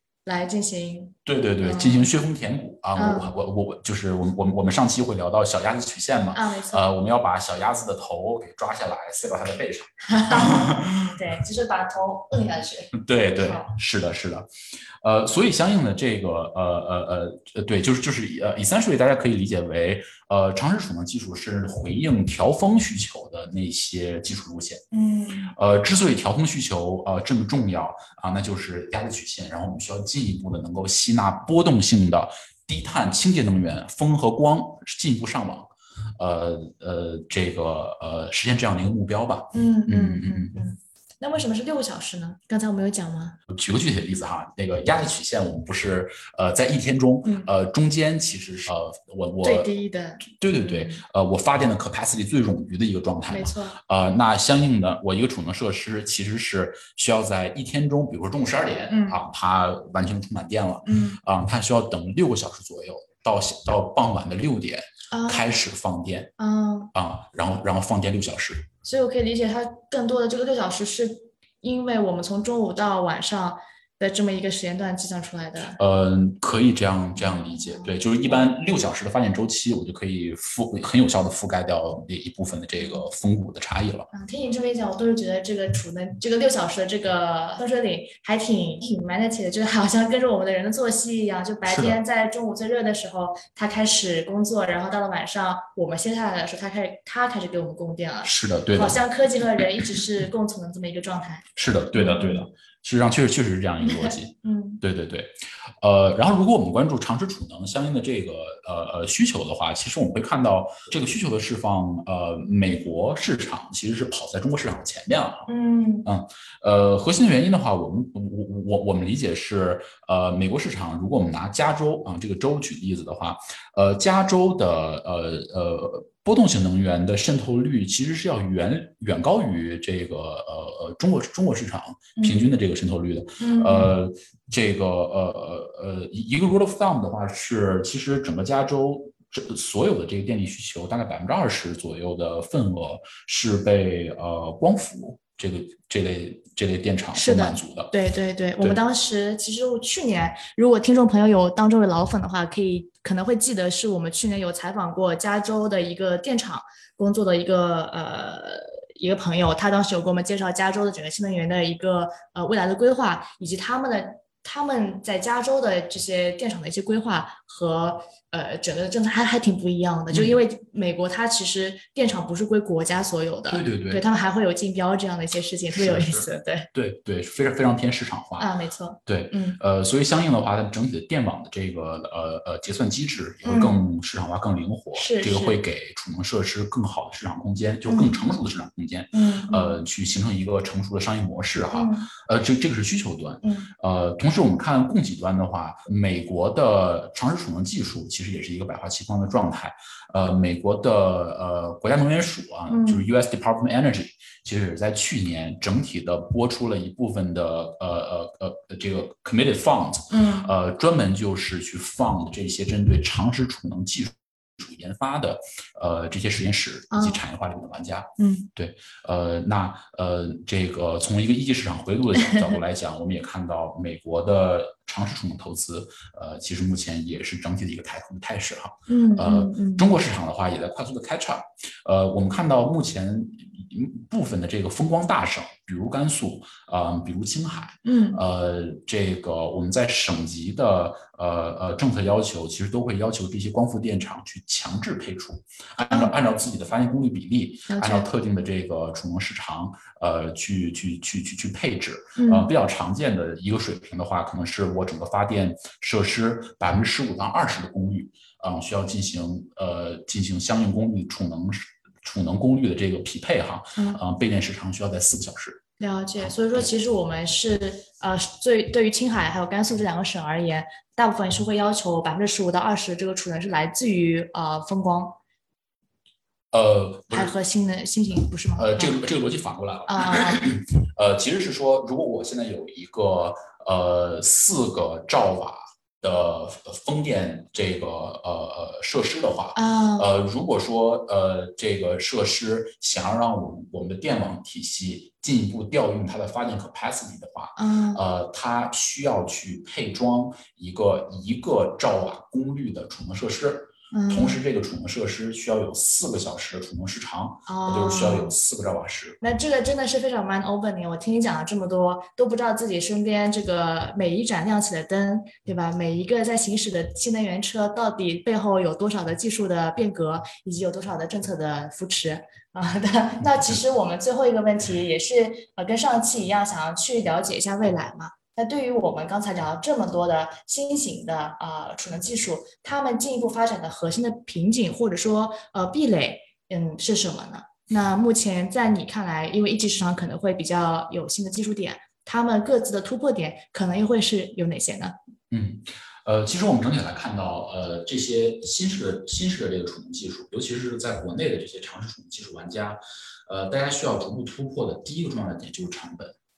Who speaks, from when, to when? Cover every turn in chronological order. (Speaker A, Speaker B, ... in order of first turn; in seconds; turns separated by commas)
Speaker A: 0.2-2.1, Speaker B: 1.2-11.1, Speaker A: 3.0-3.3, Speaker A: 6.3-6.9, Speaker A: 10.1-13.7, Speaker B: 12.9-14.5, Speaker B: 15.0-24.8, Speaker A: 24.9-25.5, Speaker B: 25.5-40.6, Speaker A: 39.5-43.4, Speaker B: 43.5-49.7, Speaker A: 47.2-47.5, Speaker A: 49.4-51.0, Speaker B: 50.3-66.3, Speaker A: 53.3-53.8, Speaker A: 58.9-59.2, Speaker A: 60.9-61.2, Speaker A: 65.1-65.5, Speaker A: 66.4-66.9, Speaker B: 66.9-68.7, Speaker A: 68.8-75.8, Speaker B: 75.8-84.1, Speaker A: 77.2-78.5, Speaker A: 84.1-102.5, Speaker B: 91.7-92.0, Speaker B: 98.2-99.0, Speaker B: 99.5-100.0, Speaker B: 101.6-115.5, Speaker A: 103.8-104.8, Speaker A: 115.5-116.1, Speaker B: 116.0-147.9, Speaker A: 132.2-132.5, Speaker A: 133.4-133.9, Speaker A: 147.1-176.7, Speaker B: 170.1-170.4, Speaker B: 173.5-174.0, Speaker B: 175.7-178.5, Speaker A: 178.4-179.6, Speaker B: 179.1-265.6, Speaker A: 183.4-183.8, Speaker A: 184.9-185.6, Speaker A: 187.9-188.2, Speaker A: 189.1-189.8, Speaker A: 191.7-192.1, Speaker A: 193.4-193.7, Speaker A: 202.7-203.1, Speaker A: 210.1-210.5, Speaker A: 216.9-217.2, Speaker A: 218.2-218.5, Speaker A: 228.9-229.8, Speaker A: 237.8-238.2, Speaker A: 247.7-248.1, Speaker A: 252.2-252.5, Speaker A: 263.8-264.0, Speaker A: 265.8-275.2, Speaker B: 266.2-266.7, Speaker B: 276.5-277.3, Speaker A: 277.1-279.1, Speaker B: 278.6-309.2, Speaker A: 279.9-280.5, Speaker A: 289.6-290.1, Speaker A: 297.6-298.0, Speaker A: 303.9-304.4, Speaker A: 307.5-308.3, Speaker A: 309.2-344.9, Speaker B: 345.3-356.2